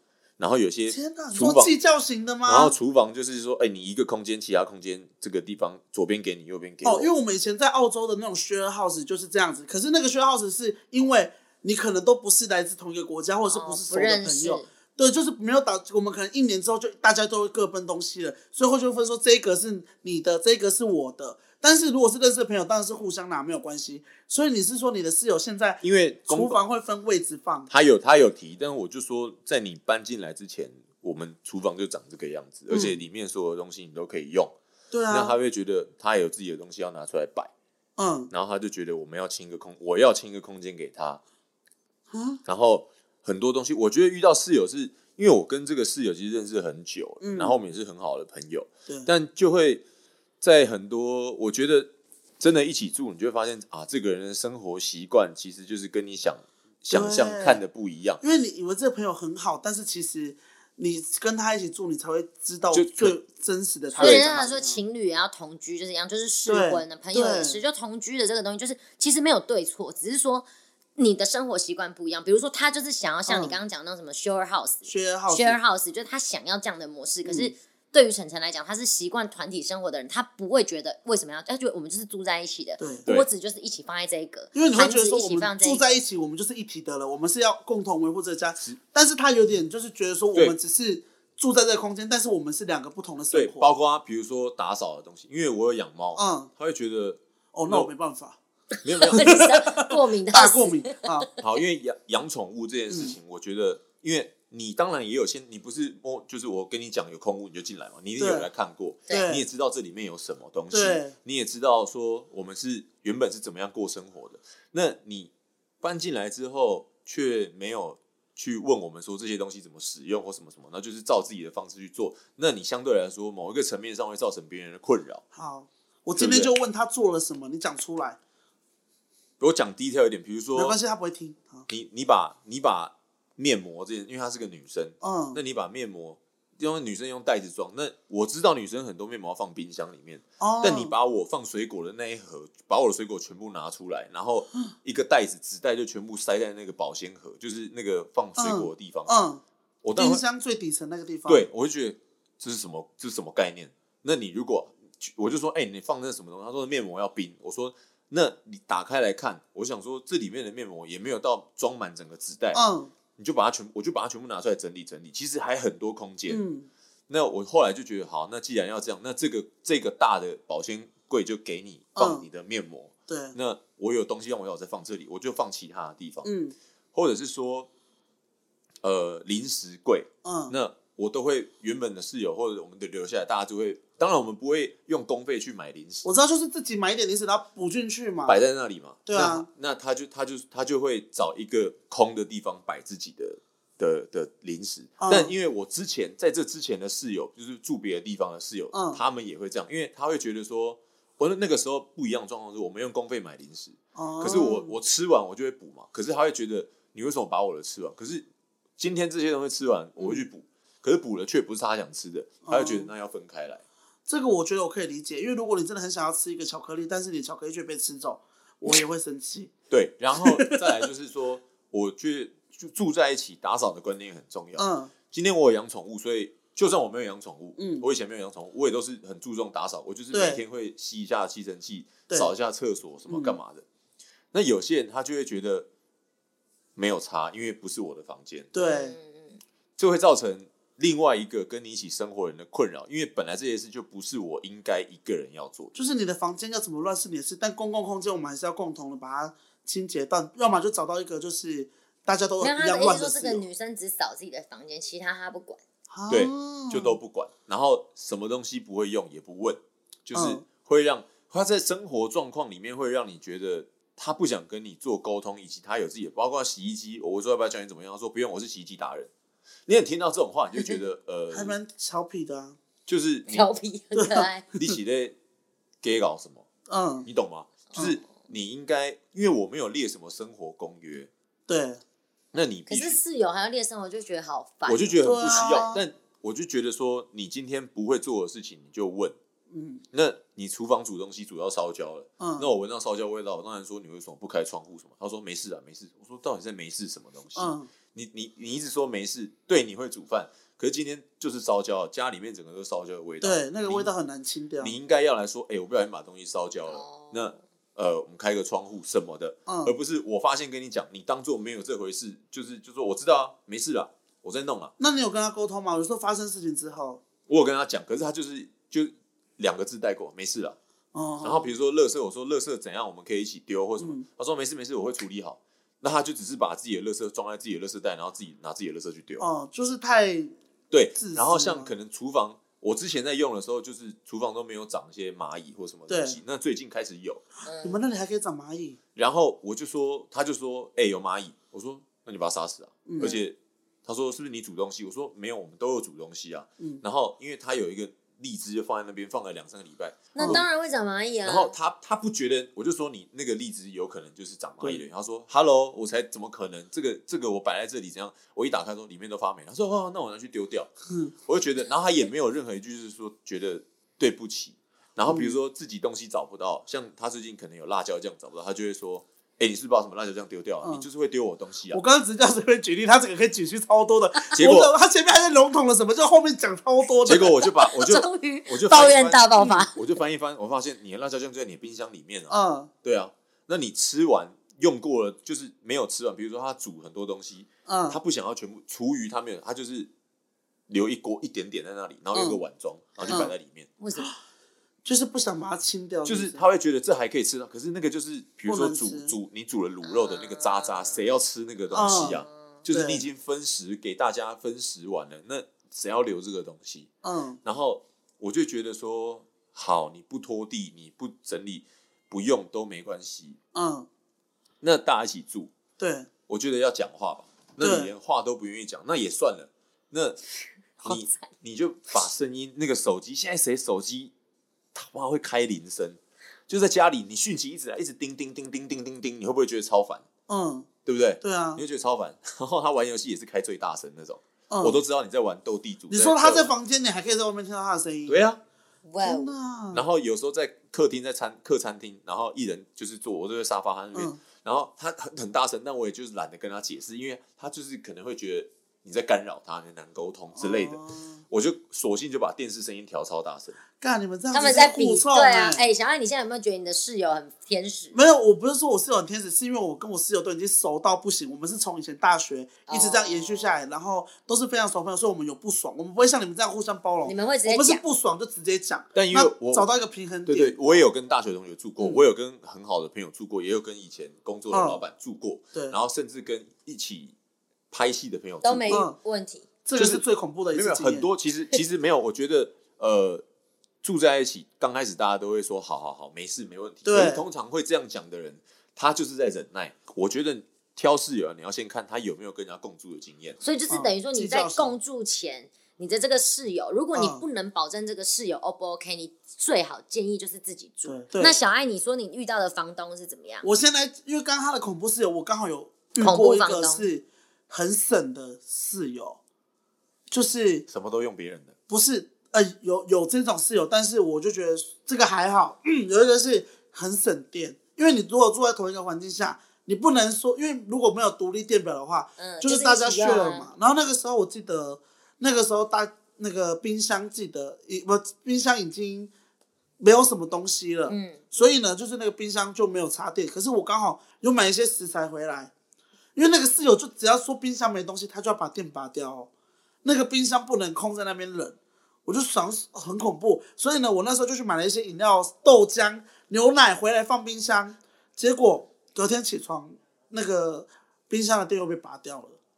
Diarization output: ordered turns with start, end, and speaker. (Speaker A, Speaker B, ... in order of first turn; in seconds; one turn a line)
Speaker A: 0.4-1.7
Speaker B: 0.9-2.7
Speaker A: 2.5-7.1
Speaker B: 6.8-27.7
Speaker C: 13.5-14.7
Speaker A: 25.8-26.6
Speaker A: 27.7-34.5
Speaker B: 32.7-33.0
Speaker B: 34.9-35.4
Speaker A: 35.1-37.5
Speaker B: 38.0-38.3
Speaker A: 38.3-41.2
Speaker B: 42.1-42.4
Speaker A: 42.5-49.8
Speaker B: 47.2-47.6
Speaker A: 50.4-58.2
Speaker B: 56.9-57.6
Speaker B: 58.2-64.8
Speaker A: 62.7-63.1
Speaker C: 64.0-70.5
Speaker A: 64.0-64.4
Speaker B: 66.5-67.6
Speaker C: 71.0-85.9
Speaker B: 73.3-73.6
Speaker B: 74.8-75.6
Speaker B: 77.2-77.5
Speaker B: 82.8-83.1
Speaker B: 84.5-93.7
Speaker A: 93.3-97.9
Speaker B: 96.2-96.5
Speaker B: 97.5-98.4
Speaker A: 98.8-99.4
Speaker C: 99.0-101.3
Speaker B: 99.1-101.3
Speaker A: 101.4-125.2
Speaker B: 102.9-103.1
Speaker B: 108.2-108.5
Speaker B: 109.1-109.4
Speaker B: 110.7-111.1
Speaker B: 125.3-128.2
Speaker A: 126.1-126.5
Speaker A: 129.4-130.8
Speaker B: 130.5-131.7
Speaker A: 131.7-149.2
Speaker B: 135.0-135.4
Speaker B: 140.4-140.9
Speaker B: 148.4-149.4
Speaker A: 149.8-150.2
Speaker B: 149.9-151.4
Speaker A: 151.3-162.6
Speaker B: 162.5-162.9
Speaker A: 163.2-166.4
Speaker B: 166.3-166.7
Speaker A: 167.1-176.3
Speaker B: 171.9-172.2
Speaker B: 173.1-173.3
Speaker B: 176.2-176.5
Speaker A: 176.9-177.7
Speaker A: 178.8-186.1
Speaker B: 180.2-180.5
Speaker B: 186.0-188.4
Speaker A: 188.3-208.2
Speaker B: 189.1-189.5
Speaker B: 195.0-195.3
Speaker B: 198.7-199.0
Speaker B: 203.9-204.7
Speaker A: 208.8-213.6
Speaker B: 210.0-210.2
Speaker B: 212.5-212.9
Speaker B: 214.1-219.5
Speaker A: 219.7-233.6
Speaker B: 220.2-220.6
Speaker B: 224.6-224.9
Speaker B: 227.6-227.8
Speaker B: 230.1-230.4
Speaker B: 233.1-233.4
Speaker A: 234.3-235.7
Speaker A: 236.7-238.5
Speaker B: 238.5-238.9
Speaker C: 238.6-239.4
Speaker A: 239.8-245.7
Speaker B: 245.7-253.4
Speaker C: 252.4-255.6
Speaker B: 255.9-257.0
Speaker A: 256.1-269.1
Speaker B: 260.1-260.4
Speaker A: 269.7-271.6
Speaker B: 271.3-272.6
Speaker A: 272.9-273.5
Speaker C: 273.3-274.4
Speaker B: 273.9-274.7
Speaker A: 274.5-275.1
Speaker A: 275.8-276.4
Speaker B: 276.7-277.1
Speaker A: 277.1-281.1
Speaker B: 281.5-281.8
Speaker A: 282.3-283.0
Speaker C: 282.7-285.7
Speaker A: 284.6-289.2
Speaker B: 285.0-285.8
Speaker B: 289.5-289.8
Speaker A: 289.9-303.9
Speaker B: 292.2-292.5
Speaker B: 297.4-297.7
Speaker B: 303.2-304.8
Speaker A: 304.6-314.7
Speaker C: 306.7-307.3
Speaker B: 309.5-309.7
Speaker B: 314.8-317.0
Speaker A: 317.3-320.6
Speaker B: 320.9-321.5
Speaker A: 321.2-329.3
Speaker B: 323.8-324.1
Speaker B: 329.2-330.3
Speaker A: 330.7-337.2
Speaker B: 331.0-331.7
Speaker B: 335.9-336.2
Speaker C: 337.4-337.8
Speaker B: 337.6-338.8
Speaker A: 338.9-350.4
Speaker B: 342.9-343.1
Speaker C: 350.1-351.5
Speaker B: 350.2-350.4
Speaker A: 351.2-360.7
Speaker B: 360.9-361.1
Speaker A: 361.2-371.8
Speaker B: 365.1-365.4
Speaker B: 371.7-377.4
Speaker A: 374.3-374.7
Speaker A: 377.0-389.9
Speaker C: 377.7-379.7
Speaker B: 382.3-382.7
Speaker B: 387.6-388.0
Speaker A: 390.7-393.7
Speaker B: 392.1-392.4
Speaker B: 393.1-393.3
Speaker C: 393.8-394.1
Speaker B: 394.8-396.4
Speaker A: 396.1-406.9
Speaker B: 398.4-399.1
Speaker C: 399.8-401.0
Speaker B: 401.7-403.1
Speaker C: 401.8-402.3
Speaker B: 407.0-407.4
Speaker A: 407.4-413.4
Speaker B: 413.5-413.9
Speaker A: 414.6-415.5
Speaker B: 415.8-416.1
Speaker A: 416.3-420.2
Speaker B: 417.6-417.9
Speaker A: 420.8-424.1
Speaker C: 420.8-421.1
Speaker A: 424.7-430.0
Speaker B: 430.3-430.7
Speaker A: 430.8-436.5
Speaker B: 431.2-431.6
Speaker B: 434.5-434.8
Speaker B: 435.9-438.2
Speaker A: 438.1-438.4
Speaker C: 438.9-439.4
Speaker B: 439.0-439.8
Speaker A: 439.7-453.6
Speaker B: 443.9-444.2
Speaker B: 450.4-451.2
Speaker B: 453.8-455.6
Speaker C: 454.3-457.9
Speaker B: 457.9-470.6
Speaker C: 462.7-463.6
Speaker C: 467.0-467.8
Speaker A: 468.9-469.7
Speaker A: 470.2-477.1
Speaker B: 471.8-472.0
Speaker B: 474.5-474.8
Speaker A: 477.7-478.9
Speaker C: 478.4-479.5
Speaker B: 478.7-478.9
Speaker B: 479.6-481.1
Speaker A: 479.7-483.2
Speaker A: 483.8-493.4
Speaker B: 486.9-487.2
Speaker C: 493.4-503.5
Speaker B: 493.7-494.7
Speaker B: 496.9-497.2
Speaker B: 500.9-501.4
Speaker B: 503.4-509.2
Speaker C: 506.0-506.9
Speaker B: 510.1-510.6
Speaker A: 510.7-511.5
Speaker B: 511.7-529.1
Speaker C: 522.2-523.5
Speaker B: 529.8-535.5
Speaker C: 530.9-531.2
Speaker B: 536.1-539.3
Speaker B: 539.8-552.4